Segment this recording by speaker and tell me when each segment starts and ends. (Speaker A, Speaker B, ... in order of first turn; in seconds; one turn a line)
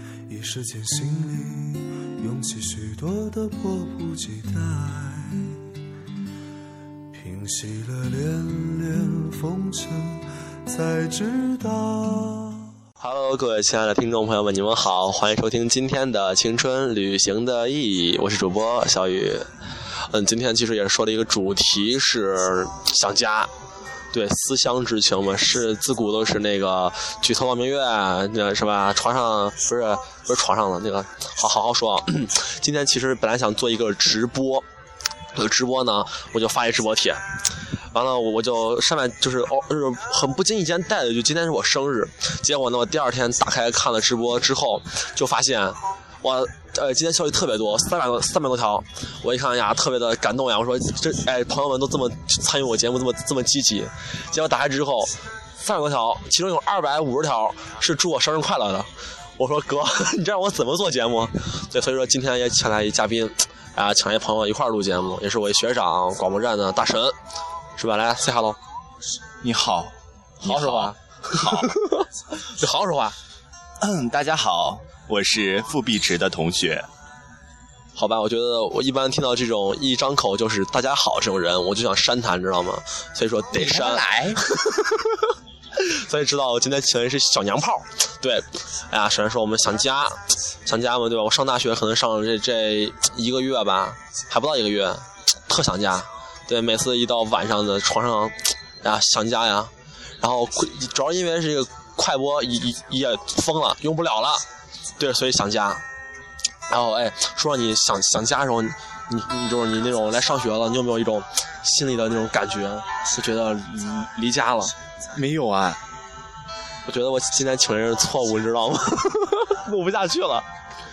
Speaker A: 0.3-5.6
Speaker A: 7.1-12.7
Speaker B: 13.0-19.5
Speaker B: 20.0-23.5
Speaker B: 24.1-34.6
Speaker B: 35.3-37.2
Speaker B: 37.8-67.2
Speaker B: 67.8-68.6
Speaker C: 69.4-69.9
Speaker C: 70.4-71.7
Speaker B: 70.4-73.2
Speaker C: 73.8-76.9
Speaker B: 78.0-104.4
Speaker C: 83.5-84.4
Speaker B: 105.0-105.8
Speaker B: 106.7-114.7
Speaker C: 115.1-115.8
Speaker B: 116.8-120.5